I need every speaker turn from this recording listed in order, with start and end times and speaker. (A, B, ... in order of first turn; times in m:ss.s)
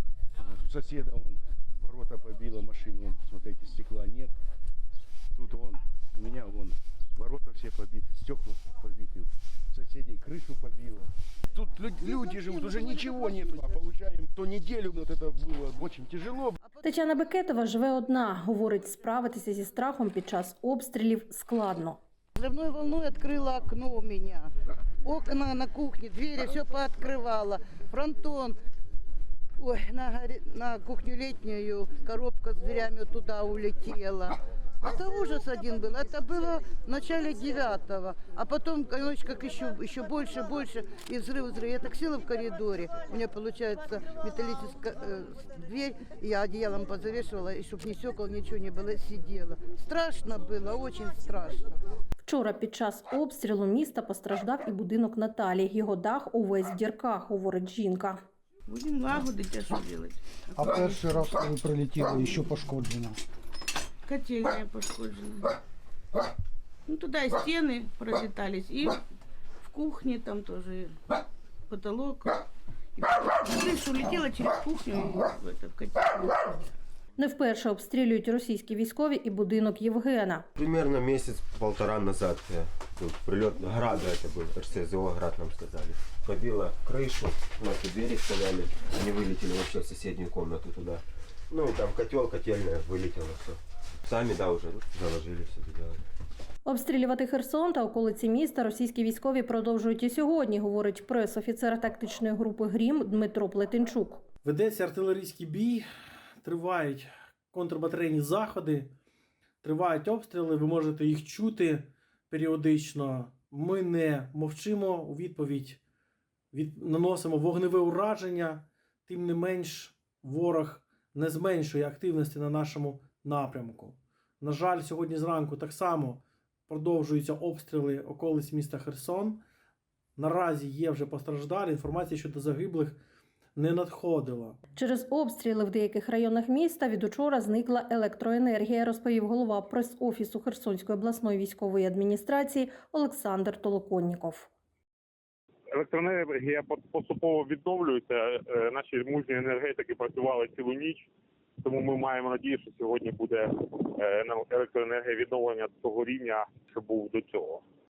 0:00.3-0:04.4 A
0:05.3-0:16.6 A
0:16.8-0:22.0 B
0:22.4-0:24.5 C
0:25.0-0:28.6 C
0:29.6-0:51.8 C
0:52.2-0:58.2 B
0:58.7-1:01.4 D
1:00.6-1:03.2 E
1:02.0-1:02.4 D
1:04.0-1:05.6 D
1:06.9-1:09.0 D
1:09.6-1:11.0 D
1:11.7-1:12.4 D
1:13.0-1:16.6 D
1:17.2-1:20.5 B
1:20.6-1:36.0 F
1:36.6-1:44.2 B
1:44.4-1:45.8 G
1:46.4-1:48.9 G
1:49.6-1:55.8 G
1:56.5-2:09.4 G
2:10.2-2:13.0 G
2:13.6-2:14.6 G
2:14.8-2:24.5 B
2:25.7-2:31.1 H
2:31.6-2:37.6 H